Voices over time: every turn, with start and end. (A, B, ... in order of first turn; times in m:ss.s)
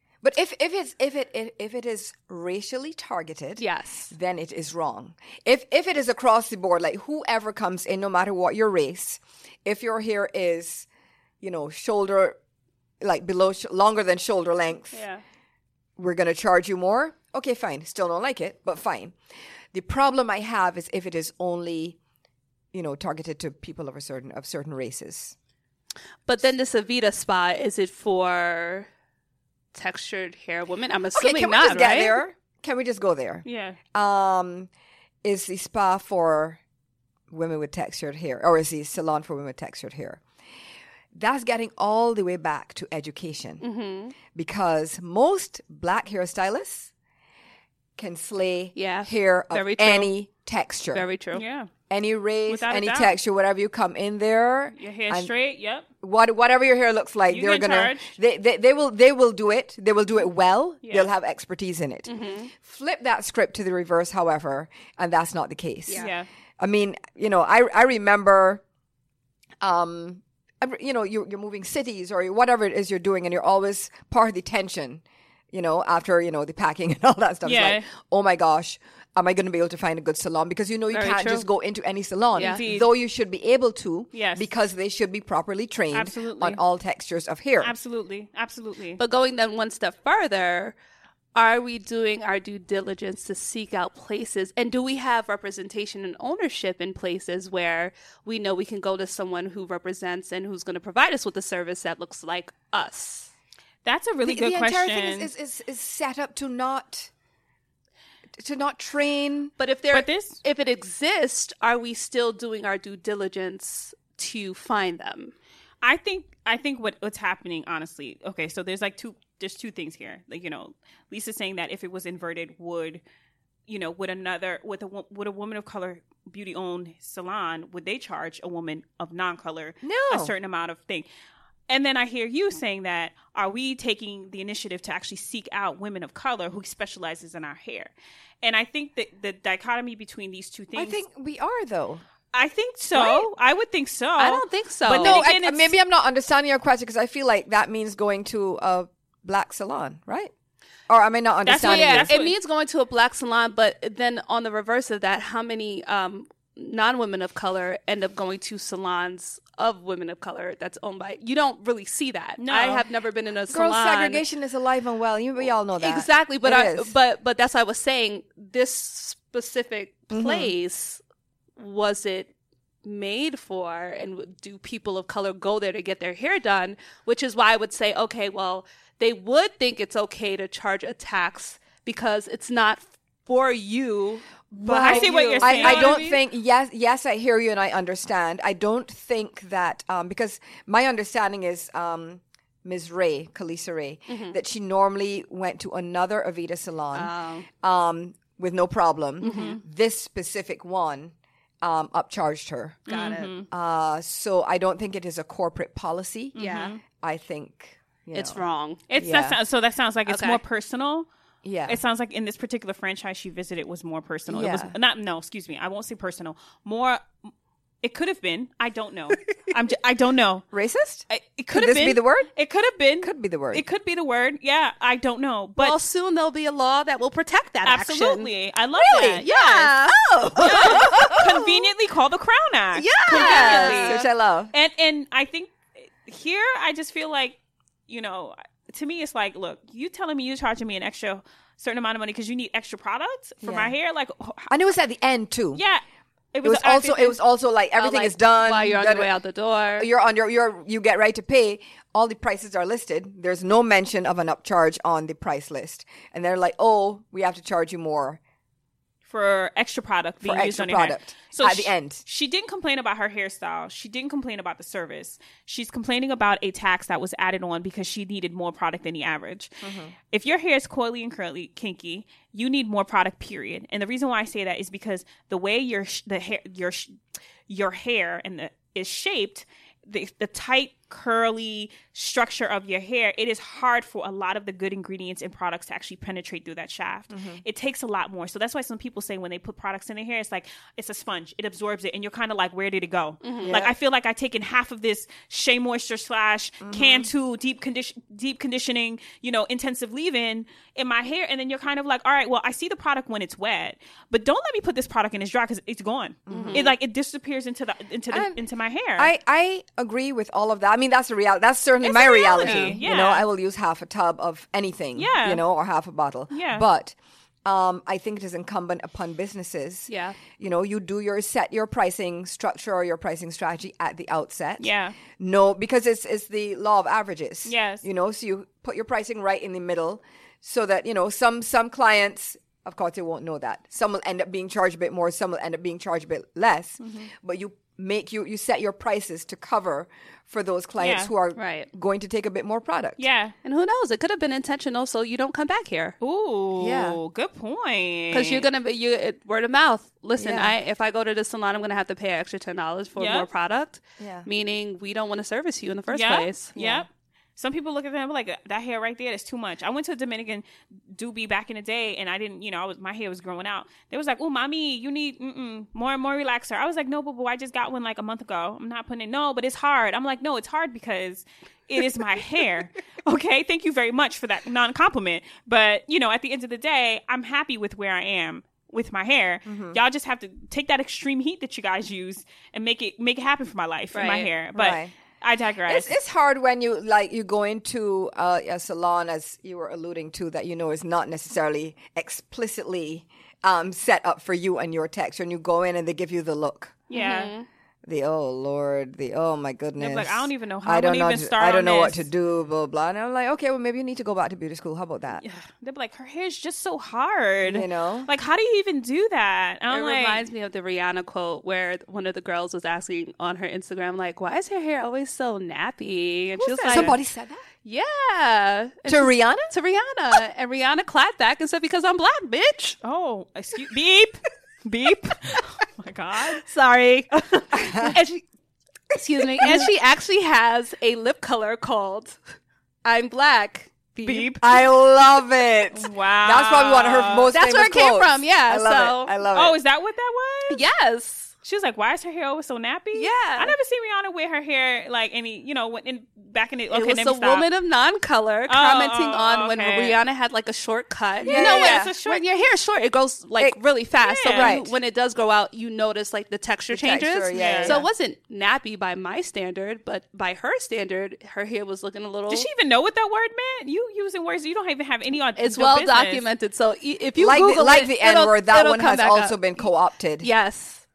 0:00.2-0:10.9 A
0:03.6-0:04.1 B
0:11.4-0:12.4 A
0:13.0-0:15.0 A
0:14.9-0:15.2 C
0:16.0-0:19.2 A
0:19.7-0:22.0 A
0:22.7-0:25.4 A
0:26.3-0:28.9 B
0:29.7-0:32.2 B
0:31.2-0:34.7 A
0:33.4-0:33.8 C
0:35.2-0:36.6 A
0:37.3-0:40.2 A
0:41.1-0:43.6 A
0:43.6-0:44.2 B
0:44.3-0:46.9 A
0:48.0-0:51.0 A
0:48.8-0:50.1 B
0:50.9-0:51.4 B
0:51.3-0:51.7 C
0:51.9-0:55.3 A
0:52.5-0:53.1 C
0:54.8-0:55.8 C
0:56.0-1:08.6 A
0:57.3-0:58.1 C
1:00.8-1:01.1 C
1:02.1-1:02.5 B
1:05.9-1:06.1 B
1:06.0-1:06.3 C
1:09.6-1:27.7 A
1:17.4-1:17.9 C
1:20.9-1:21.5 B
1:22.3-1:22.6 B
1:22.4-1:22.9 C
1:24.1-1:24.5 C
1:25.9-1:26.6 C
1:27.6-1:29.0 C
1:29.0-1:30.8 B
1:31.4-1:43.3 B
1:43.8-1:45.3 C
1:44.2-1:47.1 A
1:48.4-1:49.5 A
1:49.6-1:55.3 B
1:49.9-1:50.4 C
1:55.8-2:03.0 C
2:03.7-2:11.1 C
2:09.8-2:10.3 A
2:11.7-2:21.0 C
2:20.8-2:22.0 A
2:22.3-2:25.7 C
2:23.0-2:23.3 B
2:24.2-2:25.2 B
2:25.0-2:30.3 A
2:30.9-2:32.1 A
2:31.4-2:32.4 C
2:31.6-2:44.2 B
2:42.4-2:42.8 C
2:43.5-2:46.9 A
2:45.8-2:51.0 B
2:50.1-2:50.5 A
2:51.6-2:52.3 B
2:52.8-3:06.1 B
3:04.5-3:26.4 A
3:04.7-3:06.2 C
3:14.1-3:14.4 B
3:16.9-3:17.5 B
3:19.2-3:19.6 B
3:19.2-3:19.6 C
3:22.9-3:23.3 B
3:22.9-3:23.5 C
3:26.4-3:26.8 C
3:26.4-3:26.8 B
3:27.0-3:28.4 A
3:28.1-3:28.8 B
3:28.9-3:31.1 C
3:29.0-3:29.4 A
3:30.1-3:30.4 B
3:31.4-3:31.8 A
3:31.7-3:37.1 C
3:34.3-3:34.8 A
3:37.8-3:40.4 C
3:40.5-3:42.3 A
3:41.1-3:45.8 C
3:43.0-3:43.6 A
3:45.6-3:48.3 B
3:47.6-3:49.7 C
3:48.8-3:51.5 A
3:49.2-3:51.1 B
3:50.4-3:57.4 C
3:52.8-3:54.1 B
3:53.1-3:54.5 A
3:57.9-4:04.5 C
4:03.4-4:03.8 A
4:04.5-4:05.6 A
4:05.6-4:05.8 C
4:06.3-4:07.2 C
4:06.4-4:09.1 A
4:07.8-4:09.9 B
4:09.8-4:18.2 A
4:19.1-4:29.5 C
4:20.2-4:22.0 A
4:29.6-4:29.9 A
4:30.1-5:09.1 C
4:47.1-4:47.4 A
4:53.2-4:53.6 B
4:53.4-4:53.7 A
4:56.6-4:57.1 A
5:06.3-5:06.7 A
5:06.3-5:06.7 B
5:08.1-5:08.4 A
5:09.0-5:43.0 A
5:11.8-5:13.3 C
5:12.4-5:12.8 B
5:15.0-5:15.4 C
5:16.3-5:16.6 C
5:19.9-5:20.2 B
5:24.6-5:25.0 C
5:27.5-5:27.8 C
5:36.8-5:37.1 C
5:40.8-5:41.1 C
5:41.4-5:41.7 B
5:43.0-5:43.4 C
5:43.4-5:46.0 B
5:46.0-5:48.5 C
5:46.6-5:47.0 A
5:48.1-5:56.5 B
5:50.2-5:50.5 A
5:53.0-5:53.3 C
5:54.0-5:54.3 A
5:55.9-6:25.9 C
5:56.6-5:56.9 A
6:19.5-6:19.8 A
6:23.9-6:24.3 B
6:24.5-6:24.9 A
6:25.7-6:36.8 A
6:36.9-6:37.3 C
6:36.9-6:37.5 B
6:37.9-6:45.2 A
6:39.8-6:42.1 C
6:45.2-6:50.2 C
6:47.4-6:48.1 A
6:49.7-6:57.0 B
6:56.4-6:57.0 C
6:56.6-6:57.4 A
6:57.6-7:02.8 B
6:58.9-6:59.5 A
7:02.8-7:06.4 C
7:06.4-7:07.2 B
7:07.1-7:08.0 C
7:07.5-7:08.0 A
7:07.7-7:08.2 B
7:08.9-7:12.2 B
7:09.4-7:09.7 A
7:12.8-7:14.3 B
7:14.0-7:14.6 C
7:14.4-7:19.6 A
7:15.7-7:17.3 C
7:17.3-7:19.1 B
7:19.3-7:20.6 C
7:20.5-7:21.3 B
7:21.4-7:27.5 C
7:22.9-7:23.5 B
7:26.7-7:42.5 B
7:28.5-7:30.0 C
7:31.2-7:32.0 A
7:31.2-7:32.2 C
7:34.0-7:34.6 C
7:34.3-7:34.7 A
7:36.7-7:37.9 A
7:37.3-7:37.8 C
7:42.3-7:46.3 C
7:45.4-7:49.5 B
7:47.2-7:50.3 A
7:50.2-7:50.8 B